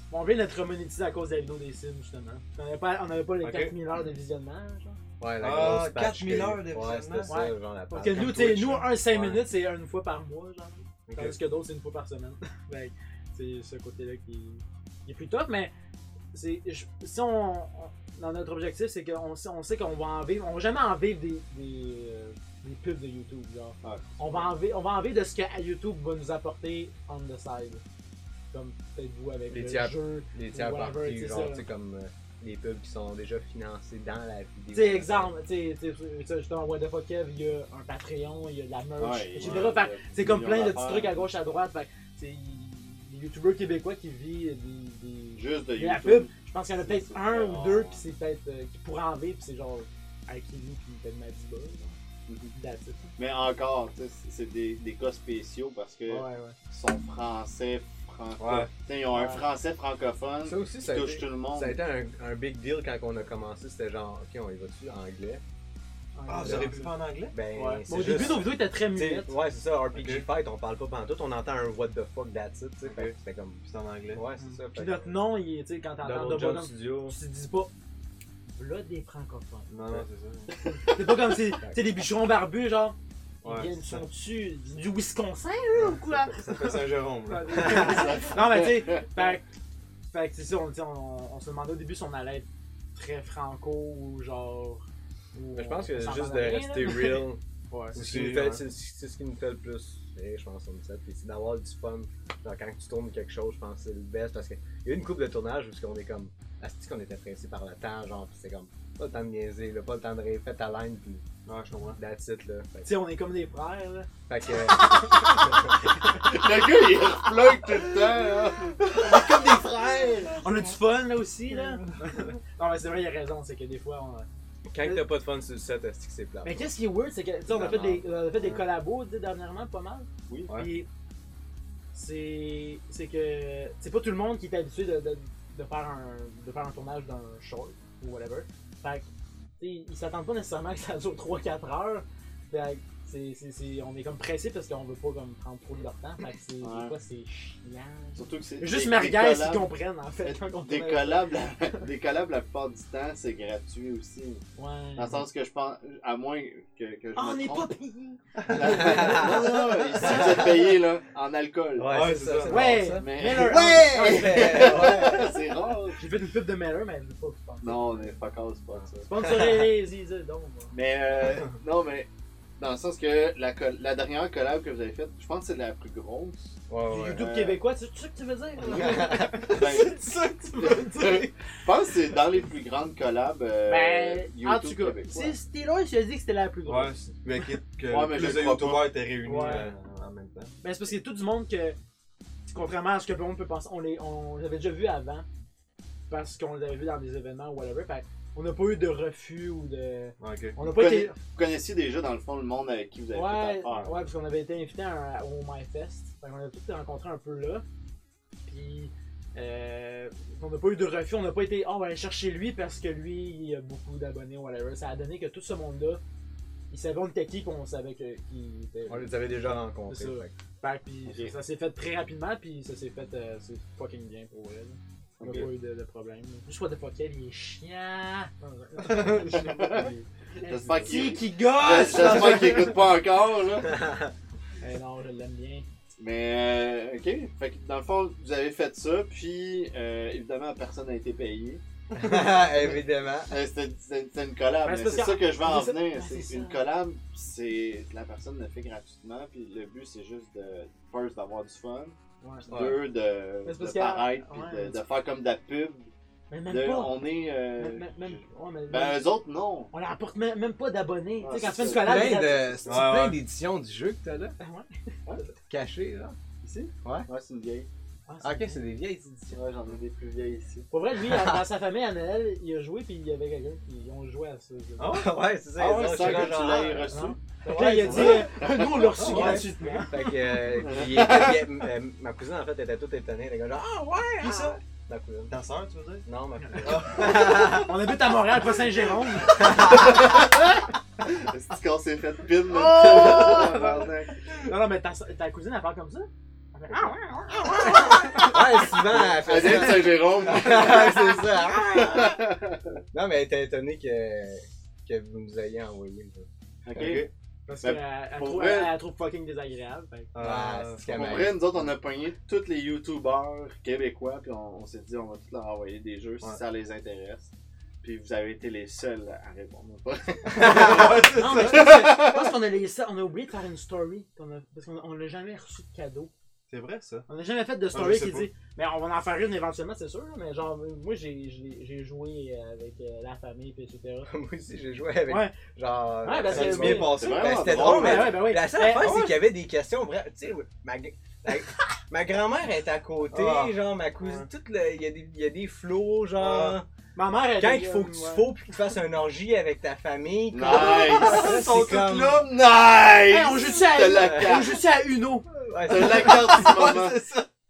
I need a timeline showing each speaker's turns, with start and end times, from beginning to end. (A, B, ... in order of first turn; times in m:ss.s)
0:00.1-0:05.0 A
0:03.4-0:03.8 B
0:05.2-0:09.4 C
0:05.4-0:07.4 B
0:07.3-0:15.7 A
0:08.1-0:08.8 B
0:11.1-0:11.4 B
0:16.3-0:27.8 A
0:23.8-0:24.6 D
0:28.5-0:31.6 A
0:29.5-0:35.3 C
0:34.7-0:52.0 A
0:39.0-0:41.3 D
0:45.4-0:48.0 D
0:52.3-0:52.5 D
0:52.6-0:53.2 A
0:53.2-1:01.8 D
0:56.1-0:56.6 A
0:58.4-0:58.7 B
0:59.1-0:59.4 A
1:00.4-1:05.4 C
1:06.2-1:07.0 A
1:06.3-1:07.4 B
1:06.4-1:06.8 C
1:07.3-1:13.6 C
1:07.5-1:09.4 A
1:09.9-1:10.2 B
1:12.8-1:14.2 B
1:14.1-1:15.2 C
1:14.4-1:17.7 A
1:16.0-1:17.2 C
1:18.5-1:19.7 A
1:19.7-1:20.5 B
1:20.6-1:21.1 D
1:20.8-1:29.5 A
1:23.4-1:24.0 B
1:25.8-1:28.0 B
1:27.6-1:29.3 D
1:30.1-1:38.0 A
1:35.5-1:37.4 C
1:37.9-1:38.6 B
1:37.9-1:51.2 C
1:51.5-1:52.0 B
1:52.0-1:52.9 C
1:52.8-1:54.1 A
1:54.3-1:55.8 C
1:54.7-1:55.4 A
1:56.2-2:00.4 D
2:00.3-2:04.3 A
2:04.7-2:06.7 C
2:06.4-2:10.9 A
2:07.5-2:08.1 C
2:11.9-2:19.1 A
2:19.6-2:31.8 A
2:26.6-2:26.9 D
2:28.2-2:29.7 D
2:30.2-2:34.4 D
2:34.6-2:35.2 A
2:35.0-2:37.7 D
2:37.2-2:40.5 A
2:38.4-2:38.8 B
2:38.5-2:41.9 D
2:38.7-2:40.5 C
2:41.8-2:45.4 C
2:41.9-2:42.8 B
2:42.5-2:45.1 A
2:43.0-2:46.0 D
2:46.0-2:48.2 A
2:47.6-2:49.1 D
2:48.8-2:49.7 C
2:49.0-2:50.7 A
2:50.7-2:52.1 D
2:52.6-2:56.5 D
2:56.7-2:57.5 C
2:56.8-3:01.3 A
2:57.2-2:57.5 D
2:58.7-2:59.5 C
2:58.7-3:00.0 D
2:59.5-3:00.8 B
3:00.6-3:05.4 D
3:03.7-3:07.0 A
3:06.7-3:10.5 B
3:07.9-3:09.0 D
3:09.2-3:09.7 A
3:10.6-3:11.8 A
3:12.5-3:15.3 A
3:16.1-3:21.2 A
3:20.2-3:20.6 B
3:20.6-3:24.0 D
3:23.1-3:27.6 A
3:28.5-3:36.0 A
3:36.7-3:52.8 A
3:38.9-3:40.3 C
3:41.1-3:41.3 D
3:45.2-3:45.5 D
3:48.8-3:49.5 B
3:49.3-3:53.8 D
3:53.6-3:54.1 C
3:54.6-3:55.6 A
3:56.0-4:01.6 D
4:01.9-4:03.3 C
4:03.3-4:15.9 D
4:04.6-4:06.6 A
4:12.2-4:12.5 A
4:12.5-4:12.8 B
4:13.4-4:14.8 A
4:16.3-4:19.1 A
4:16.5-4:19.7 D
4:19.7-4:22.6 A
4:21.2-4:22.8 D
4:21.7-4:24.4 C
4:22.7-4:23.2 B
4:24.4-4:25.3 A
4:25.5-4:26.2 C
4:26.4-4:27.7 D
4:28.1-4:28.6 A
4:28.2-4:29.4 C
4:29.3-4:30.7 D
4:30.7-4:35.0 A
4:31.0-4:31.4 C
4:34.8-4:35.1 B
4:34.9-4:36.9 C
4:35.6-4:37.2 D
4:35.9-4:36.5 B
4:36.9-4:40.0 A
4:37.4-4:38.3 C
4:37.8-4:39.4 D
4:39.0-4:39.8 B
4:39.0-4:45.3 C
4:40.5-4:41.4 D
4:44.2-4:44.6 B
4:45.3-4:46.0 B
4:46.0-4:47.7 C
4:46.4-4:46.7 A
4:46.6-4:47.7 B
4:47.6-4:49.6 A
4:49.4-4:50.1 C
4:49.6-4:54.1 D
4:52.4-4:58.7 A
4:57.3-5:02.3 C
4:58.9-5:02.8 D
5:02.9-5:07.0 C
5:06.7-5:07.1 D
5:06.8-5:07.1 B
5:07.5-5:10.1 A
5:07.6-5:08.7 D
5:10.1-5:11.2 B
5:10.2-5:11.5 C
5:10.9-5:17.3 D
5:17.8-5:22.3 D
5:20.3-5:21.8 B
5:20.4-5:20.9 C
5:21.1-5:26.1 A
5:26.5-5:27.1 B
5:27.1-5:34.1 A
5:27.7-5:28.3 B
5:34.1-5:46.7 C
5:35.1-5:35.3 A
5:36.0-5:39.0 A
5:36.3-5:37.7 B
5:36.9-5:38.3 D
5:38.7-5:39.2 B
5:43.1-5:44.3 B
5:46.2-5:46.6 B
5:47.0-5:48.3 A
5:47.4-5:52.3 C
5:50.3-5:51.4 D
5:50.4-5:52.3 B
5:52.1-5:54.6 D
5:53.1-5:55.3 A
5:53.9-5:54.5 C
5:55.4-5:56.4 C
5:55.7-5:57.0 D
5:55.7-5:57.3 B